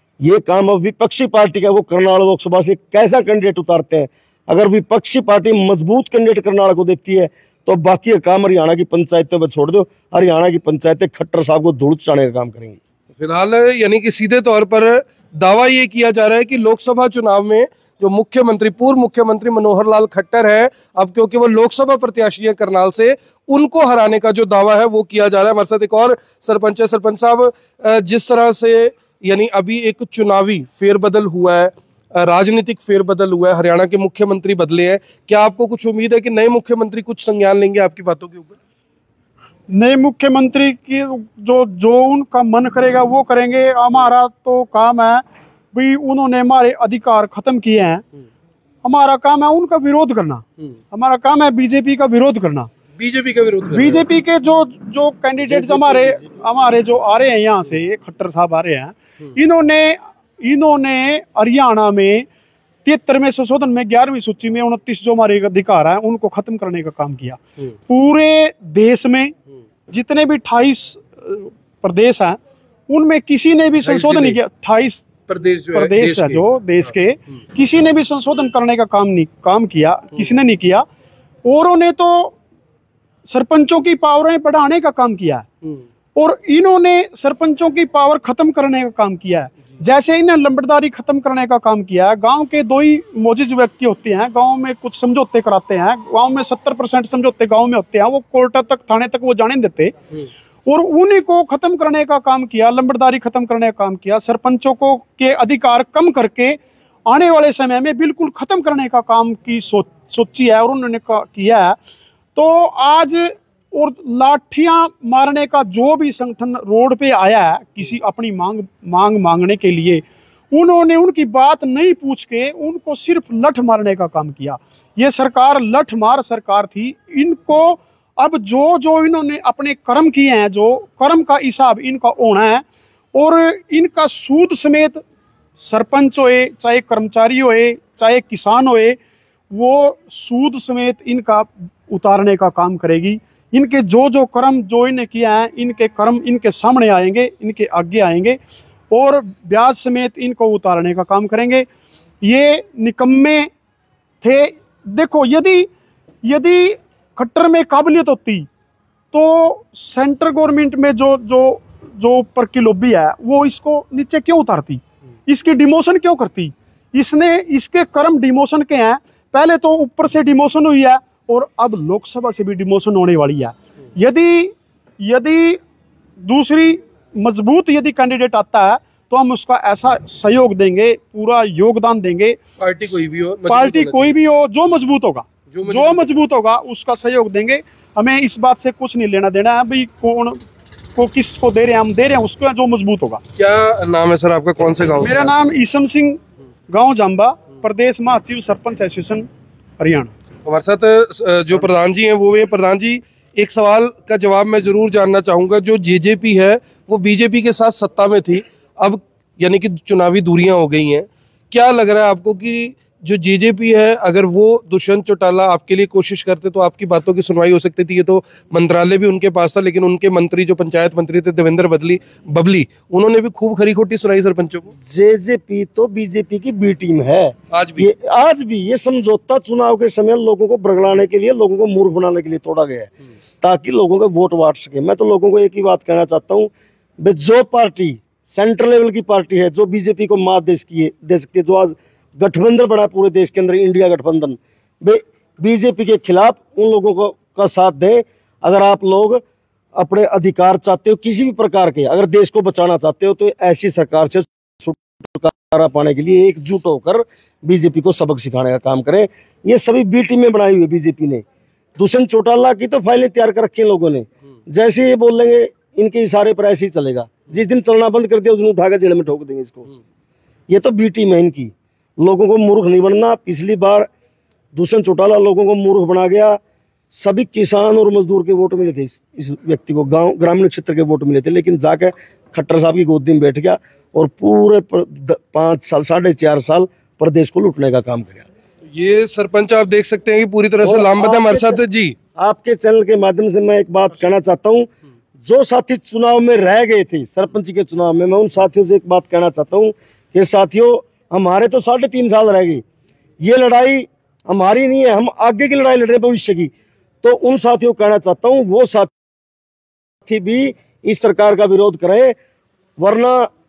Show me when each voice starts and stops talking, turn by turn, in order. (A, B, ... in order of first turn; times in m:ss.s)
0:00.2-0:12.8 A
0:13.2-0:38.6 B
0:39.7-0:48.0 C
0:48.8-0:52.7 C
0:53.0-0:54.0 B
0:53.7-1:02.3 C
0:55.5-0:56.2 B
1:02.8-1:09.3 C
1:09.9-1:12.4 C
1:12.9-1:20.8 C
1:13.8-1:14.4 B
1:15.3-1:16.9 B
1:21.4-1:22.4 C
1:23.3-1:25.4 C
1:26.1-1:39.9 C
1:40.6-1:51.8 C
1:52.4-2:15.0 C
2:15.6-2:19.0 C
2:19.5-2:28.4 C
2:28.9-2:31.6 C
2:32.2-2:33.5 C
2:34.2-2:35.7 C
2:36.2-2:38.5 C
2:39.1-2:55.6 C
2:56.2-3:03.0 C
3:02.6-3:04.2 B
3:03.5-3:10.4 C
3:05.5-3:06.1 B
3:10.9-3:13.2 C
3:13.4-3:15.3 B
3:15.0-3:19.3 C
3:19.8-3:20.1 C
3:20.4-3:44.7 B
3:44.8-4:09.2 A
3:47.5-3:47.9 B
4:09.8-4:21.2 A
4:21.8-4:29.7 A
4:30.5-4:33.9 A
4:34.5-4:36.4 A
4:36.9-4:48.3 A
4:48.7-4:52.0 B
4:50.6-4:51.6 A
4:52.2-4:54.7 A
4:55.2-5:02.6 A
5:03.2-5:08.9 A
5:10.0-5:12.1 A
5:12.8-5:13.3 A